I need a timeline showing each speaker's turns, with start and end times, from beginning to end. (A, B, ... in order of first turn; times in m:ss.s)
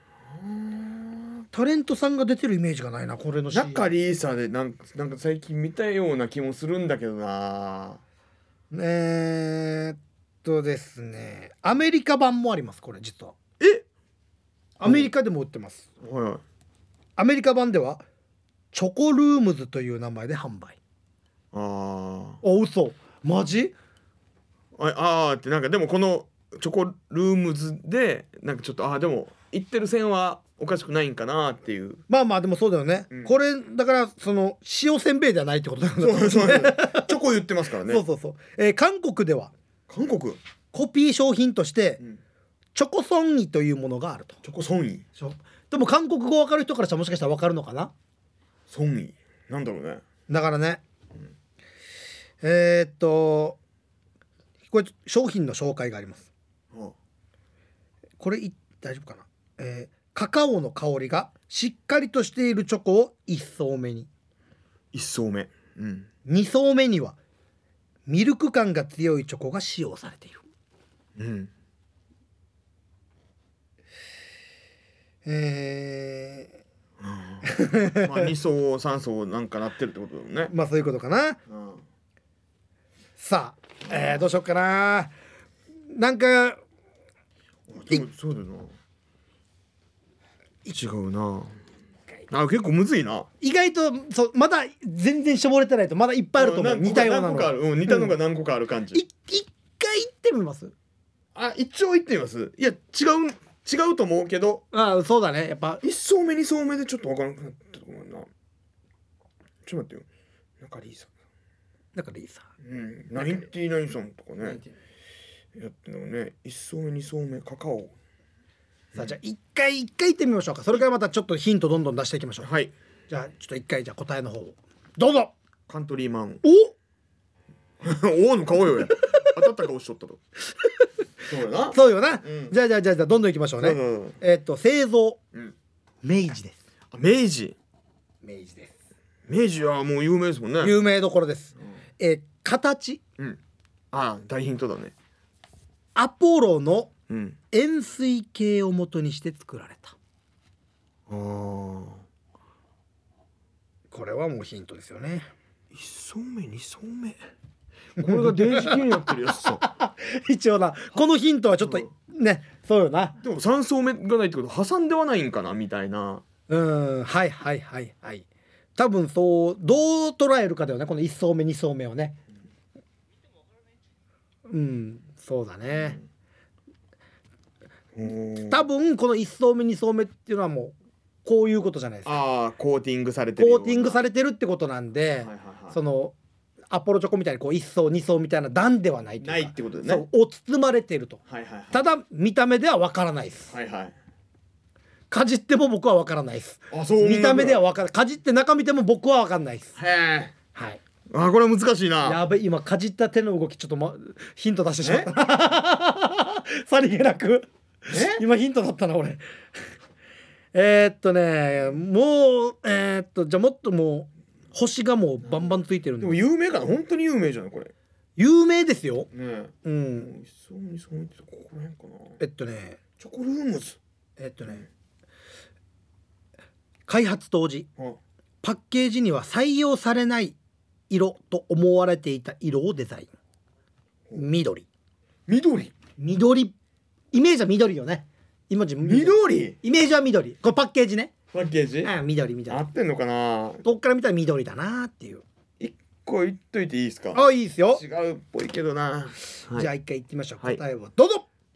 0:00.3-0:01.3 A
0:01.5-0:03.8 B
0:03.5-0:08.0 A
0:08.7-0:13.4 B
0:13.6-0:13.8 A
0:14.8-0:15.9 B
0:14.8-0:15.1 A
0:16.0-0:16.4 A
0:17.2-0:18.0 B
0:18.7-0:20.8 B
0:21.5-0:22.4 A
0:22.4-0:23.7 B
0:24.8-0:32.0 A
0:32.1-0:37.1 B
0:36.0-0:38.0 A
0:37.9-0:39.5 B
0:39.9-0:40.4 A
0:40.7-0:42.0 B
0:42.7-0:44.4 B
0:44.4-0:45.0 A
0:45.2-0:47.9 B
0:48.7-0:50.0 A
0:50.3-0:50.8 B
0:52.4-0:53.6 B
0:54.7-0:56.3 B
0:58.2-1:04.1 B
1:04.9-1:06.1 A
1:06.2-1:07.2 B
1:08.1-1:10.4 B
1:11.2-1:11.5 A
1:15.2-1:16.5 B
1:17.0-1:20.5 A
1:17.4-1:18.3 B
1:20.5-1:21.4 B
1:21.5-1:21.8 A
1:23.2-1:25.1 B
1:23.9-1:24.2 A
1:25.9-1:26.6 B
1:27.7-1:28.7 A
1:30.7-1:31.5 A
1:32.3-1:33.3 A
1:33.4-1:38.1 B
1:36.4-1:39.0 A
1:38.9-1:40.7 B
1:41.3-1:44.6 A
1:44.7-1:45.8 B
1:45.8-1:48.3 A
1:49.6-1:50.1 A
1:50.6-1:51.1 A
1:51.9-1:52.5 B
1:52.6-1:54.6 A
1:55.5-1:57.9 A
1:58.9-2:02.5 B
2:02.4-2:02.7 A
2:03.1-2:05.3 B
2:05.7-2:06.4 A
2:06.4-2:06.7 B
2:07.8-2:10.2 A
2:11.3-2:12.5 A
2:11.7-2:15.2 B
2:13.6-2:14.2 A
2:16.0-2:16.6 B
2:16.9-2:17.6 A
2:18.2-2:18.7 B
2:19.3-2:20.7 A
2:20.6-2:23.0 B
2:23.9-2:24.9 A
2:25.9-2:26.9 B
2:27.1-2:27.4 A
2:27.5-2:30.0 B
2:31.1-2:32.0 A
2:33.9-2:35.3 B
2:35.7-2:37.2 A
2:38.0-2:39.0 B
2:38.0-2:39.6 A
2:39.6-2:43.2 B
2:43.2-2:46.2 A
2:46.5-2:52.2 B
2:54.5-2:56.0 B
2:55.8-2:56.0 A
2:57.9-2:58.6 A
2:58.5-3:02.2 B
3:02.0-3:04.0 A
3:03.4-3:06.1 B
3:05.2-3:05.8 A
3:06.7-3:11.2 B
3:09.2-3:10.0 A
3:11.3-3:11.8 A
3:11.7-3:13.5 B
3:13.5-3:13.9 A
3:15.1-3:19.8 B
3:16.7-3:17.6 A
3:19.8-3:20.3 A
3:20.5-3:20.8 B
3:21.1-3:22.2 A
3:22.0-3:29.2 B
3:24.8-3:25.1 A
3:27.9-3:28.2 A
3:30.5-3:36.2 B
3:36.0-3:37.7 A
3:38.2-3:39.1 B
3:39.1-3:42.2 A
3:39.6-3:40.1 B
3:42.2-3:42.8 B
3:43.0-3:43.8 A
3:44.2-3:44.6 B
3:46.9-3:47.7 B
3:48.4-3:50.4 B
3:50.9-3:53.1 B
3:54.1-3:54.7 B
3:55.3-3:55.7 A
3:56.0-3:56.6 B
3:57.1-4:01.1 B
3:58.8-3:59.6 A
4:01.3-4:01.9 A
4:01.8-4:02.6 B
4:02.5-4:03.6 A
4:03.6-4:05.2 B
4:05.6-4:07.2 A
4:07.1-4:07.8 B
4:07.7-4:09.7 A
4:09.5-4:11.2 B